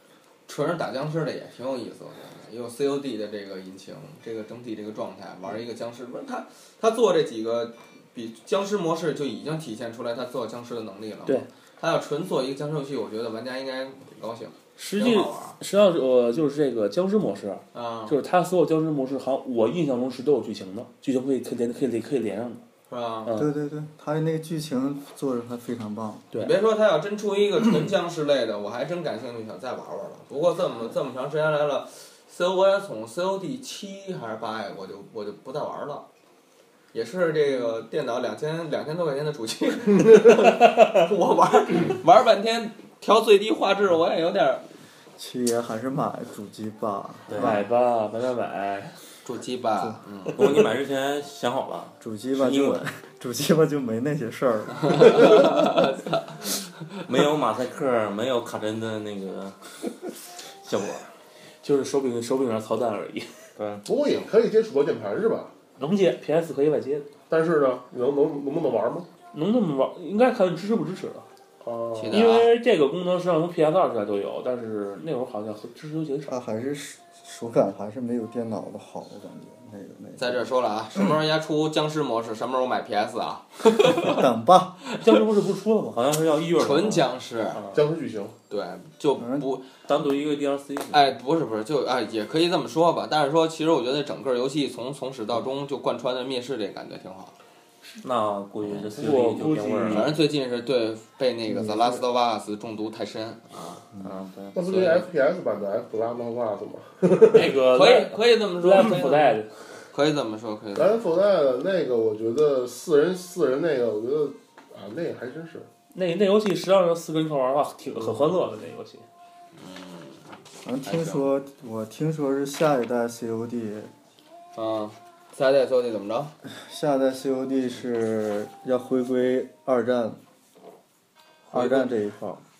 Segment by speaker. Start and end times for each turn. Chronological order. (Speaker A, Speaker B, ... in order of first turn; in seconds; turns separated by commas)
Speaker A: 0.5-15.6, Speaker B: 14.8-22.6, Speaker A: 17.7-18.1, Speaker A: 22.9-23.4, Speaker C: 23.4-26.2, Speaker A: 26.4-36.0, Speaker A: 36.9-44.6, Speaker B: 40.4-41.0, Speaker C: 45.2-47.6, Speaker D: 47.3-47.6, Speaker B: 47.4-49.0, Speaker A: 49.2-50.6, Speaker D: 50.4-52.8, Speaker C: 52.0-55.6, Speaker A: 54.9-57.0, Speaker D: 57.0-59.5, Speaker D: 60.6-61.1, Speaker B: 61.6-63.3, Speaker D: 63.5-63.9, Speaker E: 63.9-65.5, Speaker B: 65.8-67.0, Speaker E: 67.3-69.1, Speaker B: 69.3-71.3, Speaker E: 71.6-72.2, Speaker A: 71.9-72.5, Speaker B: 72.1-76.4, Speaker C: 76.3-80.5, Speaker A: 80.2-84.2, Speaker C: 83.9-84.8, Speaker B: 85.0-86.0, Speaker D: 85.9-87.1, Speaker A: 86.5-87.7, Speaker E: 87.7-88.3, Speaker A: 88.5-89.7, Speaker C: 89.2-89.5, Speaker D: 89.8-91.1, Speaker A: 90.9-97.3, Speaker D: 98.0-100.1, Speaker B: 98.9-100.1, Speaker A: 99.9-103.8, Speaker C: 101.5-102.0, Speaker C: 104.0-104.5, Speaker D: 104.0-104.5, Speaker E: 104.5-107.5, Speaker A: 104.7-105.0, Speaker B: 107.3-109.5, Speaker A: 107.4-109.4, Speaker A: 109.9-111.0, Speaker E: 110.7-115.7, Speaker B: 115.9-119.0, Speaker A: 119.5-120.3, Speaker C: 120.6-123.9, Speaker A: 120.8-121.3, Speaker A: 124.5-126.3, Speaker C: 126.4-130.2, Speaker A: 131.5-131.9, Speaker C: 131.5-132.4